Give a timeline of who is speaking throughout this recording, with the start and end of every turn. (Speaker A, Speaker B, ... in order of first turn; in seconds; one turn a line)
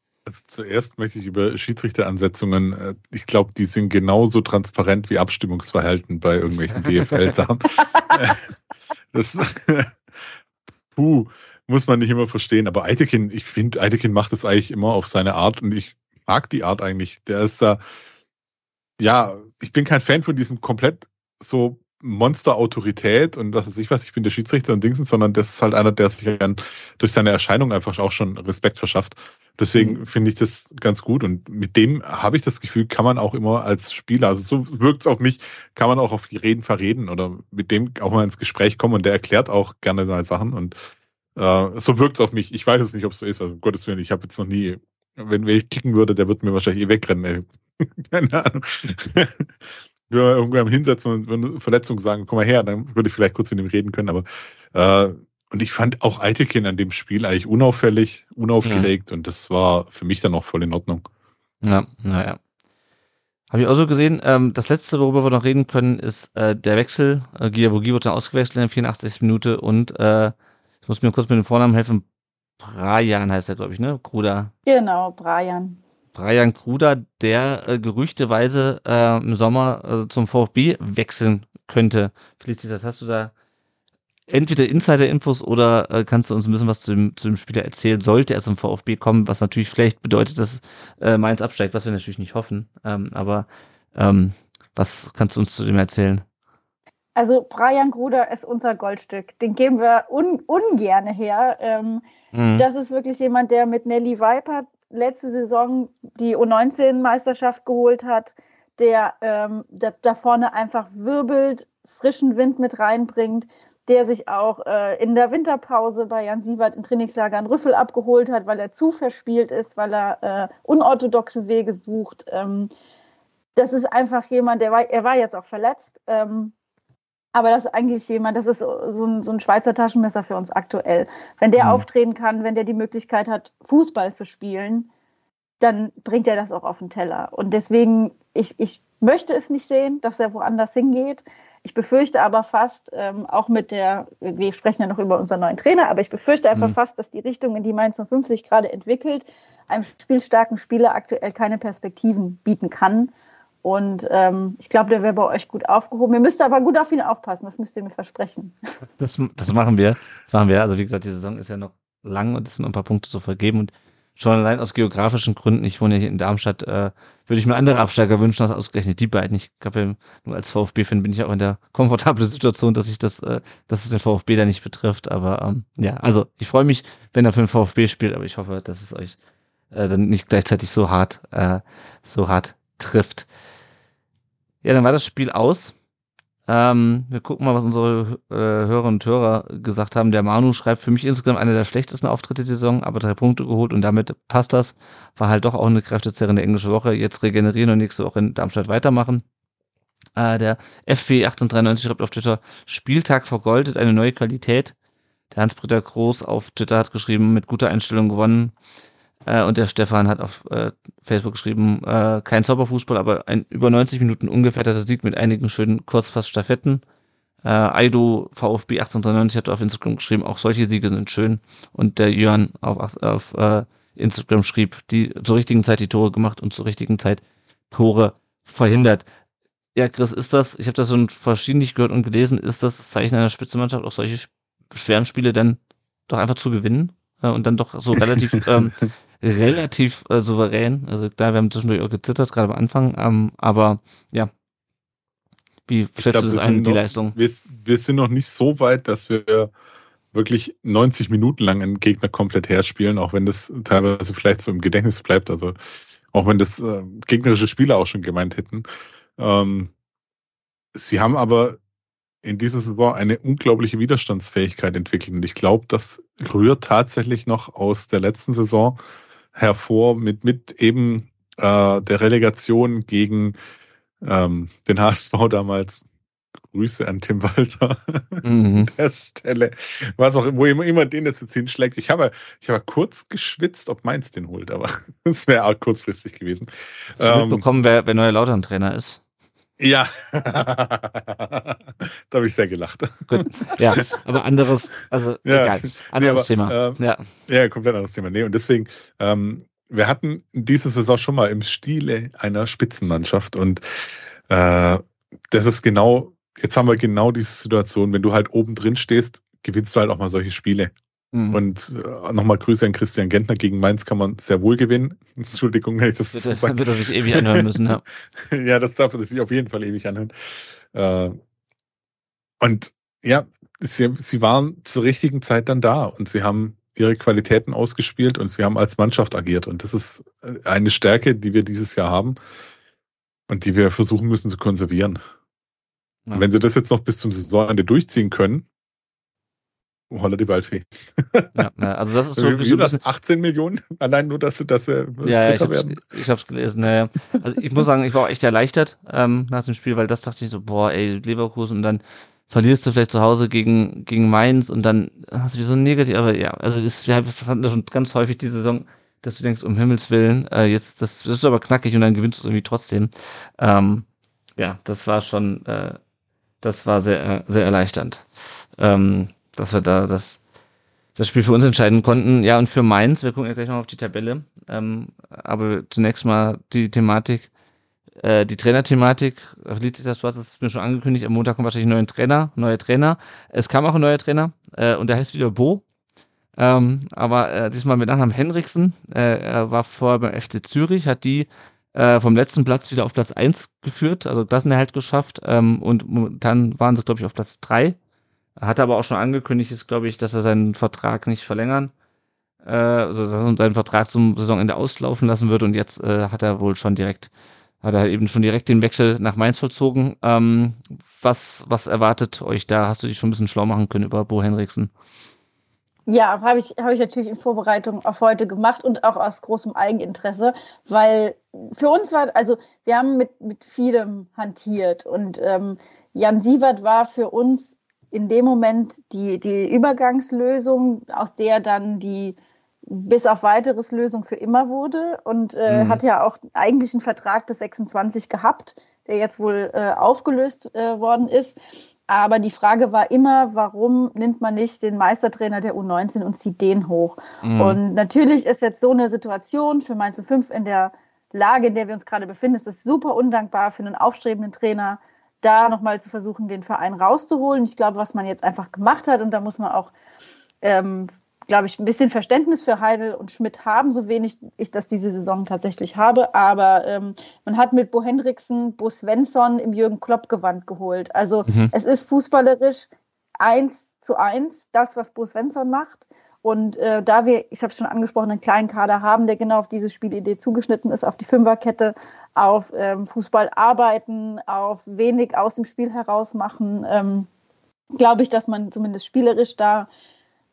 Speaker A: 0.2-8.4
Speaker B: 6.7-7.4
Speaker A: 9.1-10.0
Speaker A: 10.9-17.8
Speaker A: 19.0-40.7
Speaker A: 41.4-49.5
Speaker A: 50.1-61.0
Speaker B: 58.6-58.9
Speaker B: 61.6-62.4
Speaker B: 63.5-70.3
Speaker B: 70.8-72.0
Speaker B: 72.6-74.5
Speaker C: 74.7-75.8
Speaker B: 76.1-83.3
Speaker B: 84.3-96.2
Speaker C: 97.2-102.0
Speaker B: 102.3-102.7
Speaker C: 102.6-122.7
Speaker C: 123.5-126.5
Speaker C: 127.3-134.9
Speaker B: 131.6-131.8
Speaker C: 135.6-153.1
Speaker C: 153.6-158.5
Speaker B: 159.0-179.2
Speaker B: 179.7-183.2
Speaker B: 184.6-185.7
Speaker B: 186.5-199.2
Speaker B: 200.2-204.7
Speaker B: 205.3-208.5
Speaker B: 209.2-216.8
Speaker B: 217.4-229.0
Speaker B: 229.7-244.3
Speaker A: 238.2-238.7
Speaker B: 245.7-247.2
Speaker A: 246.0-249.5
Speaker A: 250.1-255.6
Speaker A: 256.1-258.6
Speaker A: 259.2-259.7
Speaker A: 260.7-261.6
Speaker A: 262.2-268.8
Speaker A: 269.3-273.4
Speaker A: 274.0-275.8
Speaker A: 276.5-287.4
Speaker B: 278.2-278.7
Speaker B: 287.0-289.0
Speaker A: 289.6-293.2
Speaker B: 293.1-297.0
Speaker A: 295.2-310.7
Speaker B: 311.1-311.4
Speaker A: 311.3-317.4
Speaker B: 316.0-317.8
Speaker A: 318.2-320.1
Speaker A: 320.7-321.2
Speaker A: 322.4-332.1
Speaker A: 333.3-335.0
Speaker A: 336.1-338.4
Speaker A: 339.9-341.3
Speaker B: 341.4-342.8
Speaker A: 342.2-345.8
Speaker B: 345.0-363.9
Speaker B: 364.4-365.8
Speaker B: 366.4-368.0
Speaker B: 368.6-370.2
Speaker B: 370.9-377.3
Speaker B: 378.0-385.6
Speaker B: 386.4-397.8
Speaker B: 398.4-401.7
Speaker B: 402.4-407.1
Speaker B: 407.6-414.7
Speaker C: 415.9-459.7
Speaker B: 435.5-435.8
Speaker B: 447.2-447.6
Speaker C: 460.4-472.7
Speaker B: 471.2-471.5
Speaker C: 473.2-487.1
Speaker C: 487.8-489.7